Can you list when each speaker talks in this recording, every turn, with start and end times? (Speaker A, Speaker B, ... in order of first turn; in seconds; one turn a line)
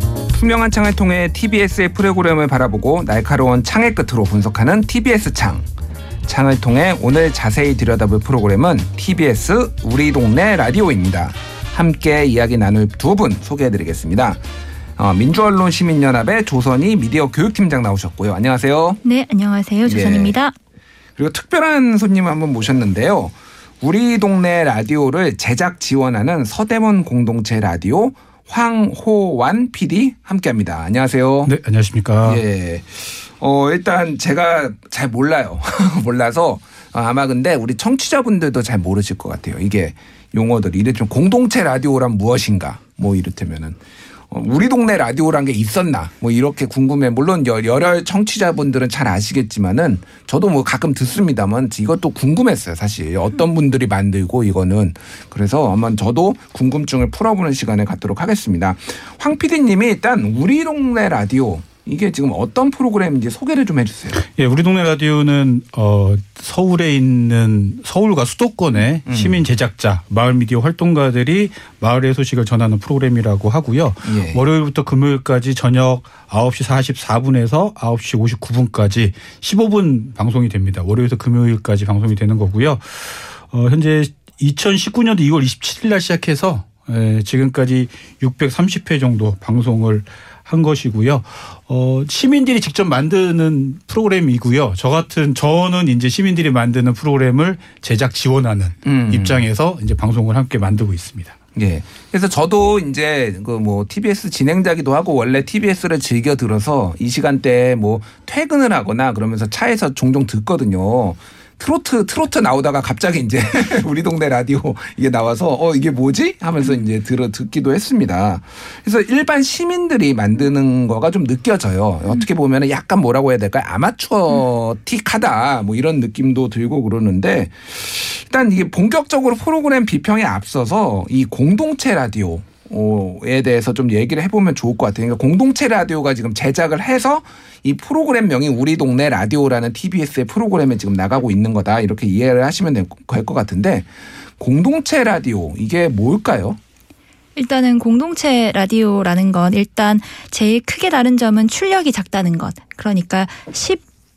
Speaker A: 0.3-5.7
Speaker A: 6.2-14.4
Speaker A: 15.0-19.0
Speaker B: 19.0-20.5
Speaker A: 19.8-20.3
Speaker A: 21.1-31.5
Speaker C: 31.4-32.4
Speaker A: 32.2-43.8
Speaker A: 44.3-64.2
Speaker C: 64.3-101.3
Speaker A: 69.1-69.4
Speaker A: 74.0-74.4
Speaker A: 98.8-99.4
Speaker A: 101.5-143.9
Speaker A: 144.4-146.6
Speaker B: 147.3-153.8